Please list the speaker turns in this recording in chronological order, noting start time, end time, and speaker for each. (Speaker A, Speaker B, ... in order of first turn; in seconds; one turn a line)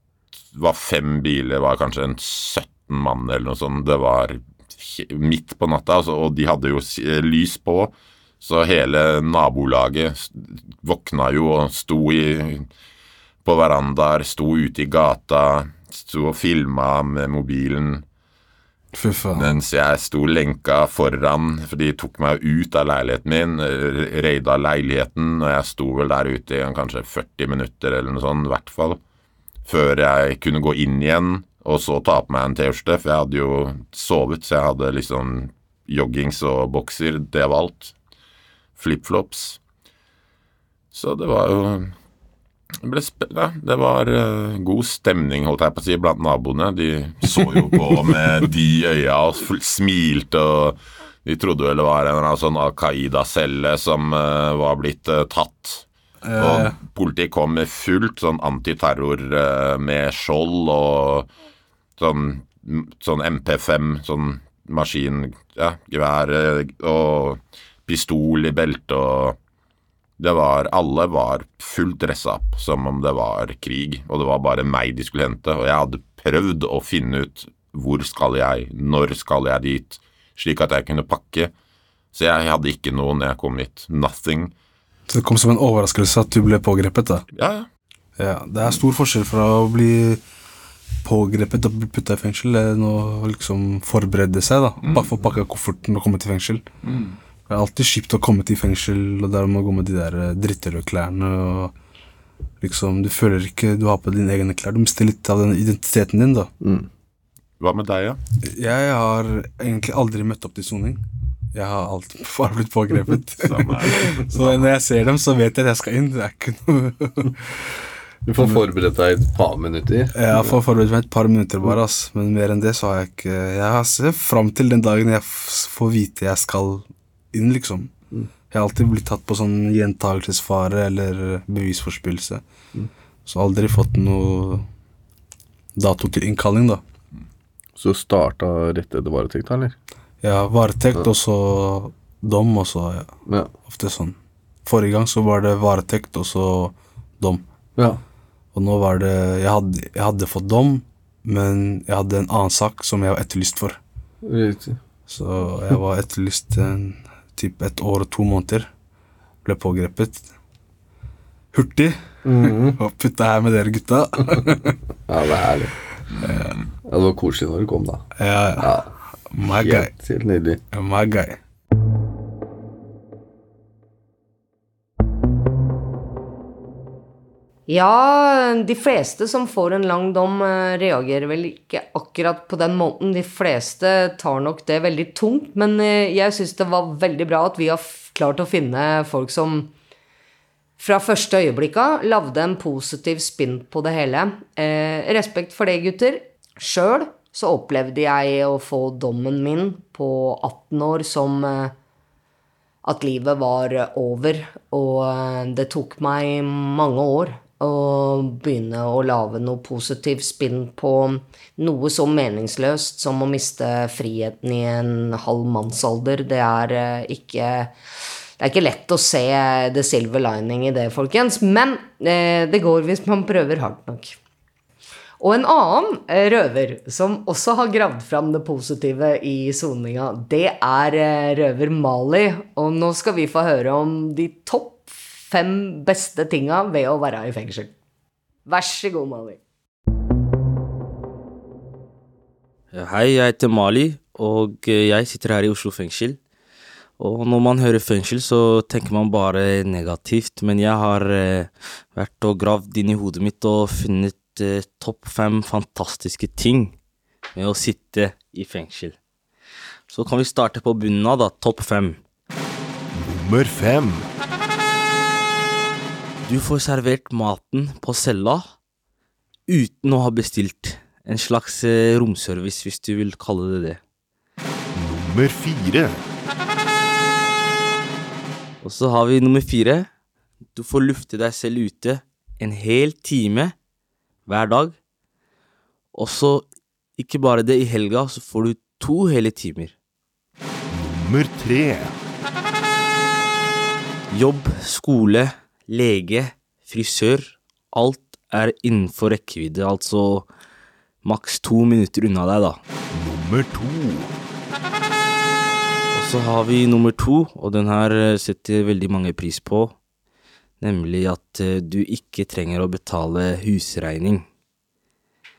Speaker A: 0.5-12.7
Speaker A: 13.4-18.1
Speaker B: 18.9-19.5
Speaker A: 19.4-29.0
Speaker A: 29.7-37.9
Speaker A: 38.8-39.6
Speaker A: 40.9-41.9
Speaker A: 42.8-55.9
Speaker B: 56.3-56.7
Speaker A: 56.4-61.3
Speaker A: 62.0-69.4
Speaker A: 70.2-81.5
Speaker A: 82.1-84.5
Speaker B: 85.1-87.2
Speaker A: 87.3-87.7
Speaker B: 88.2-90.2
Speaker B: 91.0-96.6
Speaker B: 97.5-101.7
Speaker B: 102.6-106.5
Speaker C: 106.6-106.9
Speaker A: 107.6-108.2
Speaker B: 108.5-111.0
Speaker B: 111.5-117.7
Speaker A: 113.4-114.6
Speaker C: 118.2-120.6
Speaker B: 120.2-127.9
Speaker B: 128.5-132.4
Speaker B: 133.3-134.7
Speaker B: 135.8-136.8
Speaker C: 137.8-139.8
Speaker B: 140.2-143.1
Speaker B: 143.7-147.4
Speaker B: 148.5-153.8
Speaker C: 154.2-154.8
Speaker B: 155.1-158.7
Speaker B: 159.4-160.3
Speaker B: 161.5-162.2
Speaker C: 162.2-162.8
Speaker B: 162.8-164.8
Speaker C: 165.1-165.7
Speaker B: 166.2-166.6
Speaker C: 166.8-168.1
Speaker B: 168.2-168.7
Speaker C: 168.6-168.9
Speaker B: 169.3-169.9
Speaker C: 169.4-170.6
Speaker B: 170.7-171.4
Speaker D: 177.7-189.7
Speaker D: 190.8-201.7
Speaker D: 202.8-217.7
Speaker D: 218.4-224.2
Speaker D: 225.2-237.7
Speaker D: 238.5-239.4
Speaker E: 242.7-246.2
Speaker E: 247.0-256.8
Speaker E: 257.3-259.0
Speaker E: 259.9-262.0
Speaker F: 262.9-264.1
Speaker E: 266.2-268.4
Speaker E: 269.5-273.8
Speaker F: 274.8-276.0
Speaker E: 278.6-279.9
Speaker E: 280.6-283.5
Speaker E: 284.3-284.8
Speaker E: 285.9-286.5
Speaker E: 287.0-289.7
Speaker F: 290.7-291.9
Speaker E: 294.1-300.3
Speaker E: 301.0-302.6
Speaker F: 302.9-304.1
Speaker E: 305.9-309.8
Speaker E: 310.6-314.2